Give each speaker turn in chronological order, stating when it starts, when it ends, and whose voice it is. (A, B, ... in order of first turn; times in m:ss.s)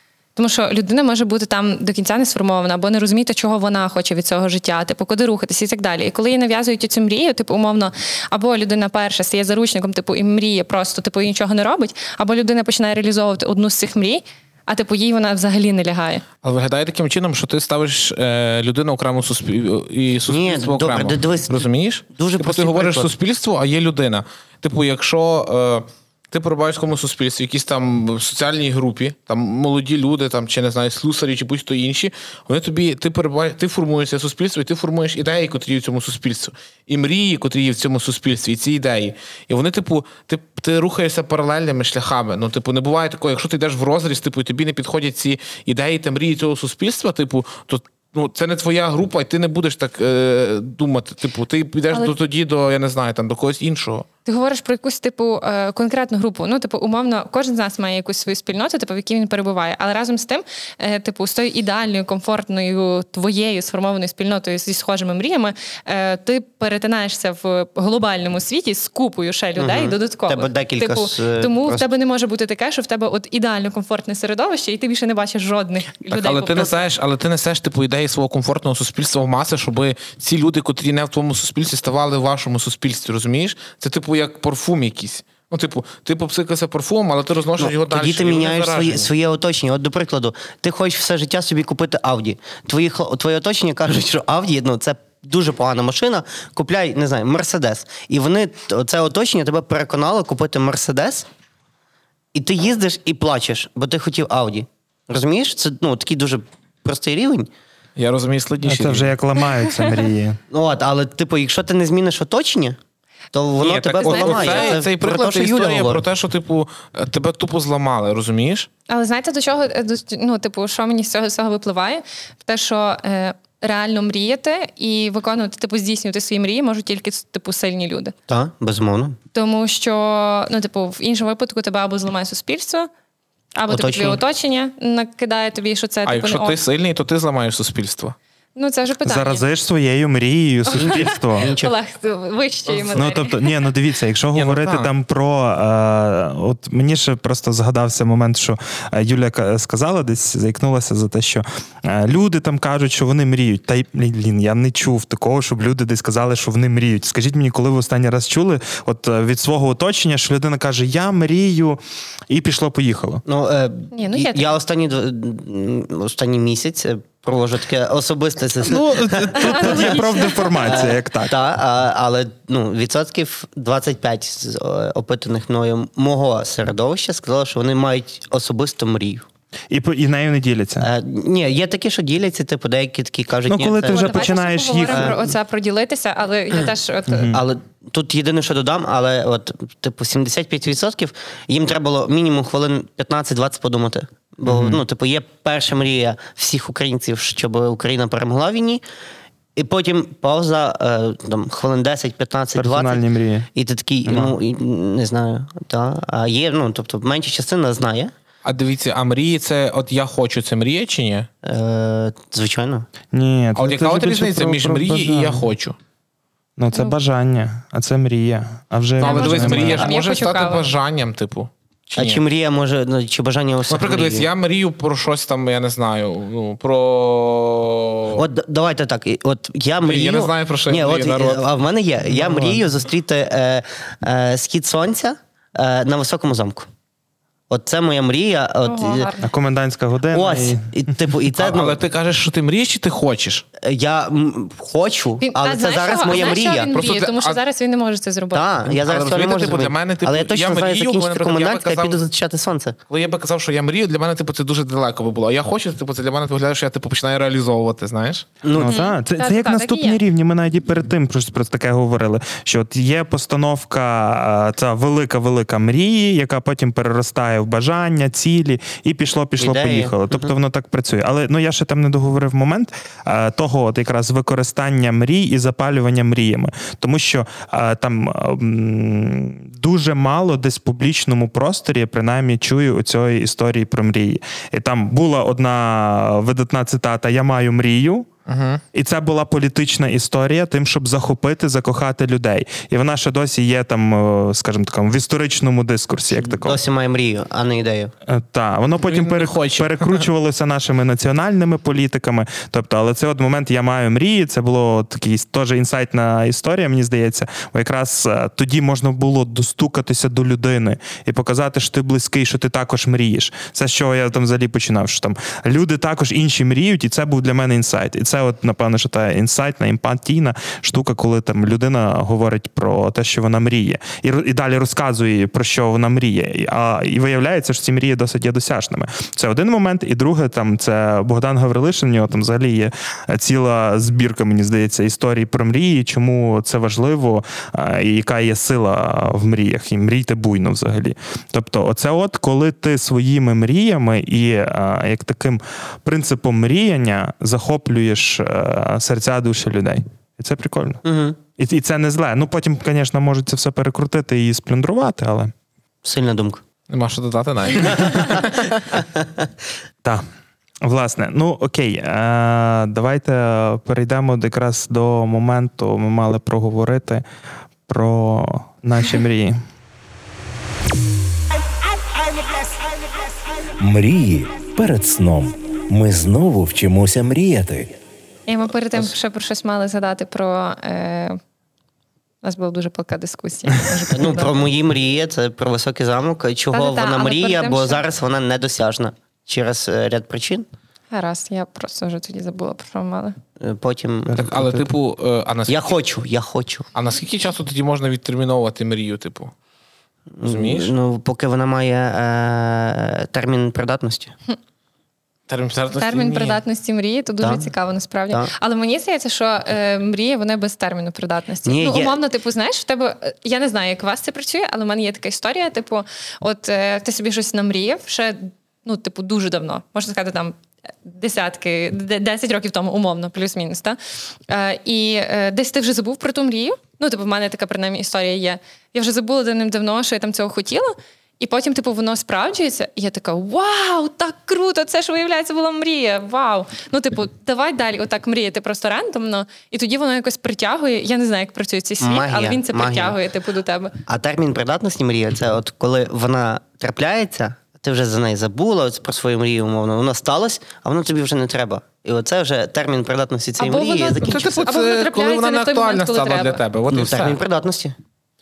0:00.4-0:16.2 A
0:16.4-0:54.1 B
0:20.3-0:23.1 C
0:54.2-1:16.8 A
1:09.6-1:11.9 C
1:16.1-1:29.1 B
1:27.6-1:41.3 C
1:42.3-1:47.5 C
1:48.0-1:49.1 B
1:48.6-1:50.4 D
1:50.5-1:52.8 C
1:53.3-1:56.0 C
1:53.6-1:58.7 B
1:54.0-1:54.8 A
1:58.9-2:08.1 A
2:08.3-2:09.2 C
2:09.3-2:12.9 A
2:13.5-2:16.6 A
2:13.7-2:14.2 C
2:16.0-2:18.2 B
2:18.6-2:19.4 A
2:19.0-2:21.5 D
2:20.7-2:23.5 A
2:20.8-2:21.7 C
2:22.7-2:23.0 B
2:22.9-2:41.8 D
2:24.3-2:24.9 B
2:42.3-2:43.2 D
2:43.2-2:50.1 C
2:43.9-2:44.4 A
2:48.6-2:51.3 D
2:49.4-2:50.8 A
2:50.6-2:59.2 C
2:59.7-3:00.9 D
3:00.8-3:04.3 C
3:03.5-3:05.2 D
3:03.8-3:07.3 A
3:04.9-3:05.2 C
3:07.1-3:07.4 D
3:07.3-3:18.8 C
3:14.4-3:14.8 D
3:19.6-3:23.0 C
3:22.5-3:23.5 D
3:23.5-3:28.1 C
3:24.0-3:24.4 D
3:28.4-3:31.3 B
3:31.4-3:32.9 C
3:33.1-3:35.5 D
3:33.6-3:35.8 B
3:36.6-3:39.9 D
3:39.0-3:40.6 A
3:39.0-3:42.2 B
3:41.9-3:44.3 C
3:43.7-3:48.2 B
3:48.1-3:56.7 C
3:49.8-3:51.5 B
3:52.1-3:52.6 D
3:57.5-3:59.1 C
3:58.6-3:59.2 A
3:59.2-4:00.9 D
4:00.1-4:01.8 C
4:01.3-4:03.4 B
4:03.6-4:06.7 C
4:05.2-4:08.4 A
4:05.9-4:07.4 B
4:08.3-4:12.8 C
4:08.6-4:12.0 B
4:12.9-4:18.3 B
4:18.4-4:18.8 C
4:18.5-4:48.1 D
4:18.6-4:20.0 A
4:29.4-4:30.3 C
4:48.3-4:48.6 B
4:48.7-4:56.6 D
4:56.1-4:57.9 C
4:58.1-5:50.8 D
4:58.8-5:00.0 B
5:50.8-5:51.2 C
5:51.4-5:55.3 D
5:55.8-5:56.4 C
5:56.7-5:58.3 B
5:57.6-5:59.3 C
6:00.6-6:07.0 D
6:07.7-6:09.4 D
6:13.6-6:17.7 E
6:18.3-6:21.2 A
6:22.2-6:24.4 A
6:23.9-6:30.4 C
6:26.5-6:27.8 A
6:30.9-6:33.2 A
6:33.4-6:34.2 C
6:34.0-6:34.7 D
6:34.2-6:35.7 B
6:35.5-6:36.6 C
6:36.7-6:39.3 B
6:40.2-6:44.1 C
6:40.2-6:40.7 B
6:45.3-6:46.4 B
6:45.7-7:03.8 A
6:47.2-6:47.5 C
6:51.4-6:52.0 C
7:04.3-7:23.7 A
7:21.8-7:23.0 C
7:23.9-7:34.2 C
7:33.4-7:36.4 A
7:34.0-7:37.2 B
7:36.7-7:37.7 C